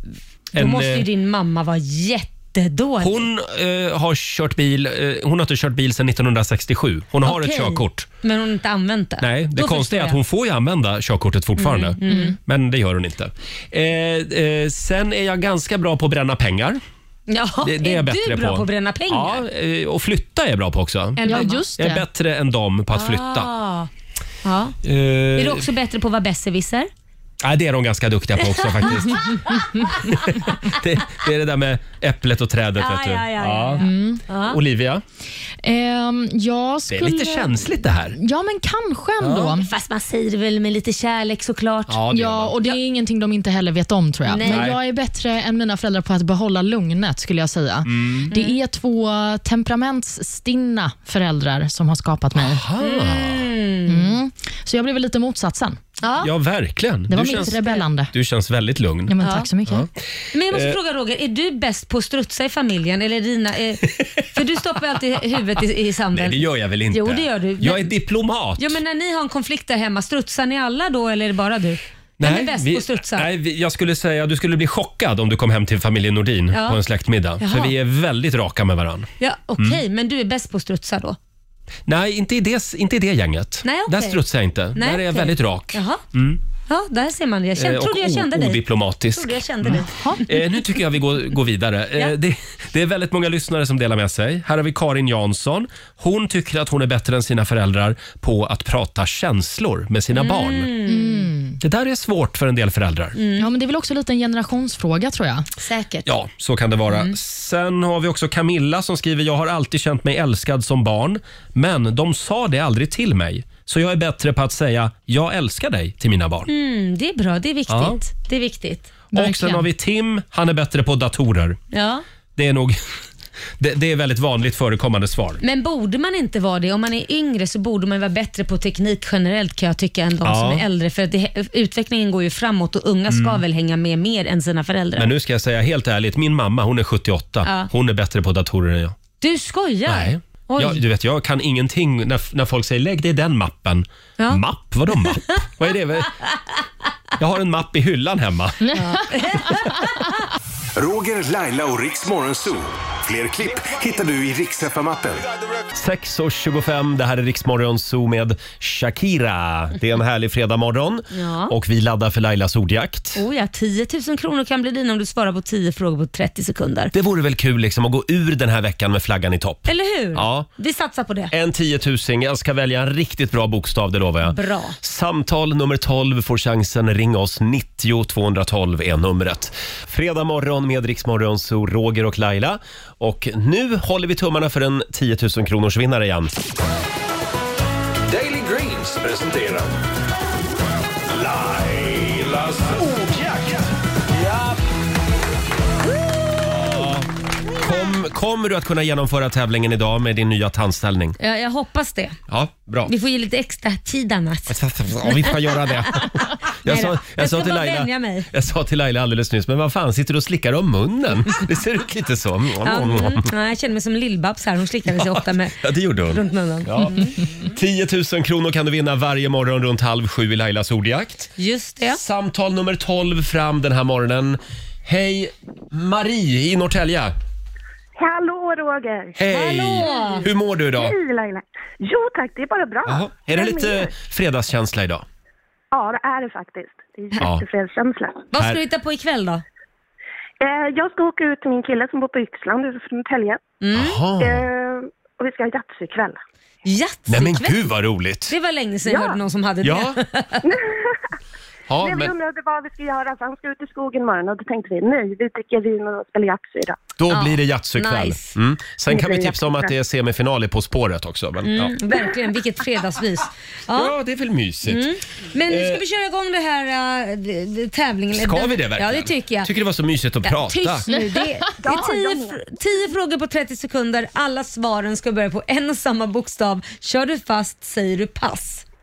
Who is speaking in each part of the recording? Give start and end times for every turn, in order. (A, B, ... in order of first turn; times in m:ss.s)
0:00.5-0:01.0 A
0:00.5-0:03.2 B
0:03.0-0:08.1 A
0:07.2-0:10.2 B
0:09.2-0:16.8 A
0:11.6-0:12.4 B
0:12.1-0:12.4 C
0:17.3-0:19.4 B
0:17.6-0:23.5 A
0:21.2-0:21.6 B
0:21.2-0:22.0 C
0:22.9-0:23.9 B
0:24.4-0:24.8 B
0:24.8-0:25.7 A
0:25.4-0:26.9 B
0:27.4-0:35.0 A
0:28.4-0:30.6 B
0:32.8-0:34.6 B
0:33.8-0:34.2 C
0:35.6-0:39.7 C
0:36.9-0:38.2 A
0:39.2-0:39.5 A
0:39.4-0:42.0 B
0:41.9-0:42.7 A
0:42.1-0:52.6 C
0:44.3-0:44.7 B
0:44.4-0:44.8 A
0:47.9-0:48.3 A
0:48.3-0:48.6 B
0:52.4-0:53.5 A
0:52.8-0:54.1 B
0:53.8-0:55.8 C
0:56.0-0:56.3 B
0:56.2-0:59.1 A
0:57.1-0:58.1 C
0:59.1-0:59.9 C
0:59.2-0:59.5 B
0:59.7-1:00.8 A
1:00.3-1:07.9 B
1:06.1-1:08.8 A
1:08.6-1:13.3 B
1:12.2-1:19.8 A
1:16.5-1:16.8 B
1:17.4-1:17.7 B
1:19.2-1:21.2 B
1:21.9-1:26.4 A
1:23.6-1:24.2 B
1:24.7-1:26.0 B
1:26.7-1:30.7 B
1:27.6-1:40.7 A
1:29.7-1:30.2 C
1:40.1-1:41.3 B
1:40.8-1:41.6 C
1:41.6-1:43.2 A
1:43.2-1:43.5 B
1:43.4-1:45.5 C
1:45.6-1:46.1 B
1:46.0-1:56.5 A
1:56.5-1:58.9 B
1:57.7-1:58.0 A
1:59.1-1:59.7 C
1:59.1-2:01.6 A
2:01.7-2:02.0 B
2:02.4-2:02.8 A
2:03.6-2:05.4 A
2:05.4-2:15.1 B
2:10.2-2:10.6 A
2:13.1-2:13.4 A
2:15.0-2:19.0 A
2:17.4-2:17.7 B
2:19.2-2:20.8 B
2:19.8-2:26.1 A
2:25.0-2:25.4 B
2:27.2-2:28.7 A
2:28.6-2:29.0 C
2:28.7-2:30.1 B
2:30.7-2:35.3 D
2:35.7-2:43.2 A
2:41.1-2:41.5 B
2:43.2-2:46.9 B
2:46.9-2:50.5 A
2:49.6-2:51.3 B
2:51.3-3:06.3 A
2:54.2-2:54.8 B
3:08.1-3:09.7 D
3:11.1-3:14.6 D
3:16.5-3:17.1 A
3:17.6-3:21.2 A
3:21.2-3:22.2 B
3:22.3-3:22.9 A
3:22.9-3:24.6 B
3:24.5-3:33.2 A
3:25.1-3:26.1 B
3:26.6-3:28.3 B
3:32.6-3:37.1 B
3:35.6-3:41.3 A
3:41.4-3:42.0 B
3:41.9-3:47.1 A
3:48.0-3:49.2 E
3:49.1-3:51.0 A
3:49.3-3:50.3 B
3:49.7-3:53.9 E
3:52.9-3:55.0 A
3:55.7-3:58.2 E
3:58.3-3:59.4 B
4:00.4-4:03.4 E
4:03.6-4:04.0 B
4:03.7-4:04.5 A
4:04.2-4:06.2 E
4:06.6-4:07.7 B
4:07.1-4:08.3 A
4:08.3-4:10.4 B
4:08.8-4:09.2 E
4:09.6-4:10.0 A
4:10.4-4:11.0 E
4:11.7-4:12.1 A
4:11.8-4:16.8 E
4:17.0-4:21.8 A
4:17.1-4:18.3 B
4:18.9-4:19.7 E
4:21.4-4:23.9 B
4:23.7-4:24.9 A
4:24.6-4:29.5 B
4:25.4-4:25.8 A
4:28.1-4:30.8 A
4:30.2-4:38.6 B
4:30.9-4:31.4 C
4:31.6-4:32.4 E